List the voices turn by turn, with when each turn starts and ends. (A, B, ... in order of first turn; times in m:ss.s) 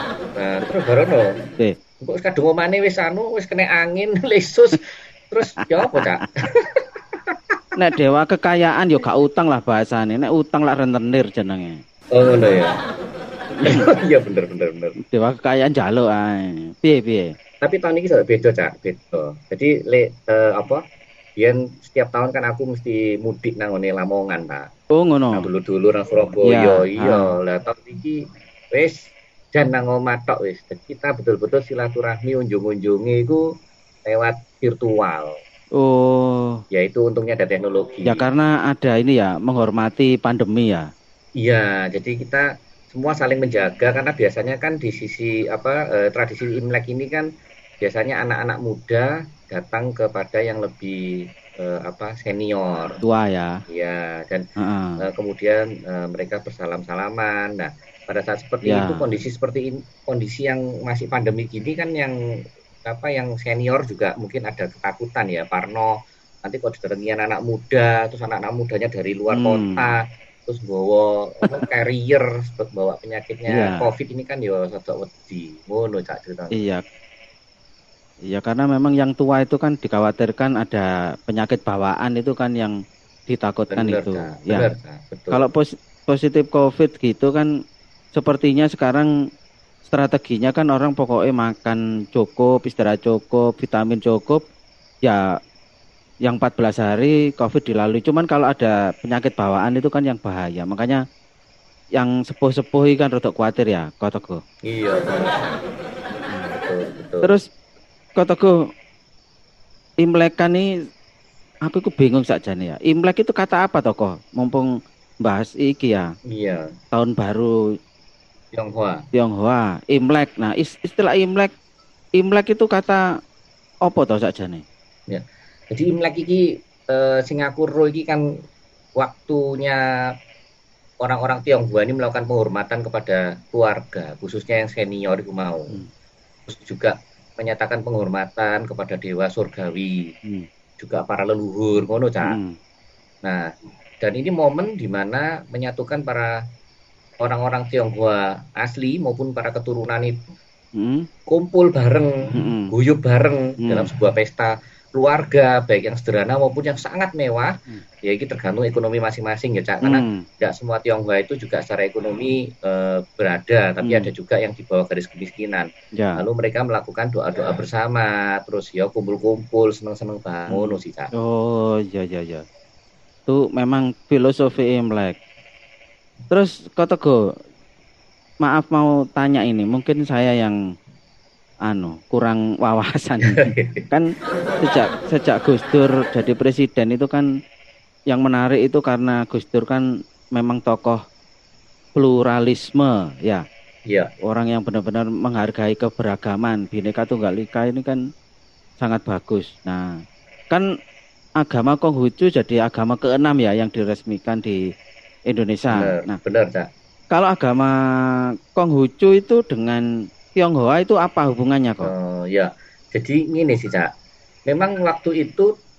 0:00.4-0:01.4 A
0:02.0-0:07.6 A
0:05.8-0:06.3 B
0:07.8-0:11.8 B
0:12.1-0:12.8 A
0:13.6-0:13.8 B
0:13.6-0:15.0 A
0:15.1-0:17.3 B
0:17.6-0:20.8 A
0:21.4-0:24.7 A
0:24.9-0:25.5 B
0:25.3-0:28.2 A
0:26.4-0:27.3 B
0:28.7-0:33.4 A
0:34.0-0:35.4 A
0:35.8-0:36.6 B
0:36.7-0:38.2 A
0:38.1-0:40.9 B
0:41.4-0:47.3 A
0:47.8-0:51.0 A
0:51.6-0:53.0 A
0:53.0-0:53.6 B
0:53.7-0:54.4 A
0:54.6-0:55.0 B
0:55.0-1:02.1 A
0:58.6-0:59.0 B
1:02.8-1:05.9 A
1:06.4-1:16.6 A
1:09.3-1:10.0 B
1:13.5-1:13.9 B
1:16.5-1:16.8 B
1:18.3-1:22.8 B
1:23.3-1:24.7 B
1:23.7-1:25.4 A
1:25.3-1:27.5 B
1:28.1-1:29.1 B
1:29.8-1:34.4 B
1:36.2-1:41.0 B
1:42.0-1:44.4 B
1:44.6-1:45.6 A
1:46.1-1:46.5 B
1:46.5-1:47.3 A
1:48.2-1:48.5 B
1:50.0-1:50.7 B
1:51.6-1:54.7 B
1:55.2-1:56.1 B
1:56.3-1:56.7 A
1:56.9-1:57.5 B
1:58.5-1:59.0 A
1:59.1-2:01.5 B
2:02.2-2:03.0 B
2:03.8-2:04.6 B
2:05.1-2:08.2 A
2:09.0-2:09.8 A
2:11.0-2:15.8 A
2:16.5-2:20.1 A
2:20.8-2:22.4 A
2:22.2-2:22.6 B
2:23.2-2:26.4 A
2:27.2-2:30.3 A
2:30.8-2:31.1 B
2:31.3-2:32.1 A
2:32.3-2:32.7 B
2:32.7-2:51.1 A
2:33.6-2:33.9 B
2:39.8-2:40.2 B
2:43.8-2:44.1 B
2:46.0-2:46.2 B
2:50.5-2:52.4 B
2:53.3-2:55.2 B
2:56.3-2:57.2 B
2:58.4-3:00.6 B
3:01.7-3:07.3 B
3:03.3-3:03.8 A
3:08.1-3:11.0 B
3:12.0-3:13.4 B
3:13.9-3:14.1 A
3:14.2-3:18.0 B
3:18.8-3:20.6 B
3:21.4-3:24.6 B
3:25.3-3:26.2 B
3:25.8-3:26.7 A
3:27.1-3:27.7 B
3:28.6-3:29.8 B
3:30.4-3:31.9 B
3:31.8-3:33.9 A
3:34.5-3:35.5 A